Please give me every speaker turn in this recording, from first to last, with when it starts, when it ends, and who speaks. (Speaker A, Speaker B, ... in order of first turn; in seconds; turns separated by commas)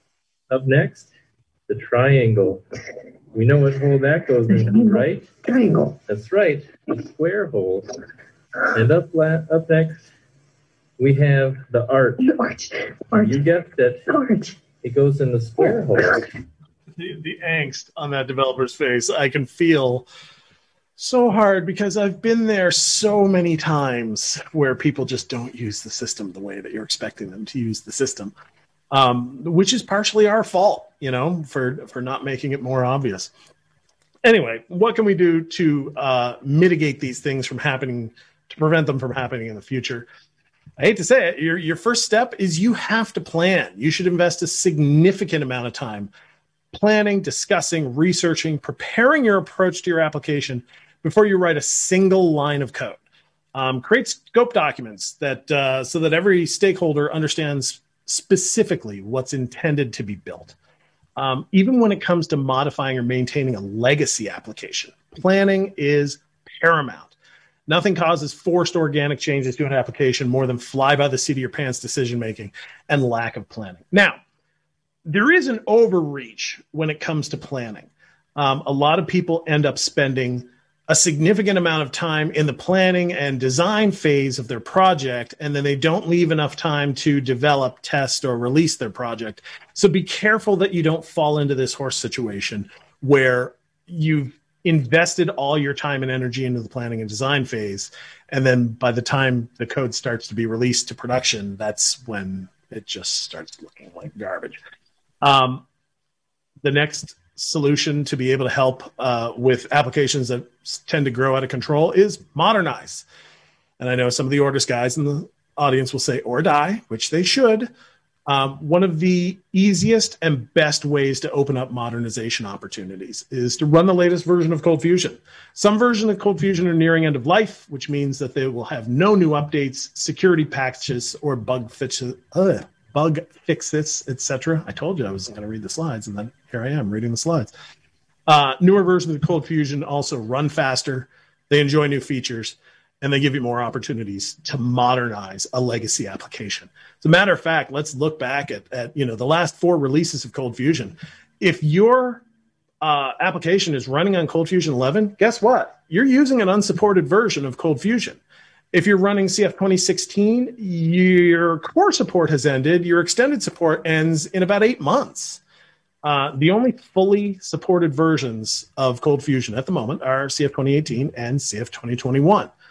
Speaker A: 0.5-1.1, Speaker A: 1.7-2.6, Speaker A: 3.3-5.3, Speaker B: 4.5-6.0, Speaker A: 6.1-8.0, Speaker A: 8.7-10.1, Speaker A: 11.0-12.3, Speaker B: 12.2-13.4, Speaker A: 13.1-14.1, Speaker B: 14.1-14.6, Speaker A: 14.8-16.3, Speaker B: 15.6-16.2, Speaker C: 17.0-20.1, Speaker C: 21.0-28.3, Speaker C: 28.9-33.3, Speaker C: 34.2-40.1, Speaker C: 40.8-46.1, Speaker C: 46.7-53.0, Speaker C: 53.5-60.5, Speaker C: 61.2-67.1, Speaker C: 67.7-74.2, Speaker C: 75.1-104.6, Speaker C: 105.2-105.6, Speaker C: 106.6-113.0, Speaker C: 113.8-117.7, Speaker C: 118.3-137.5, Speaker C: 138.3-152.2, Speaker C: 152.8-158.2, Speaker C: 158.7-165.4, Speaker C: 166.0-172.5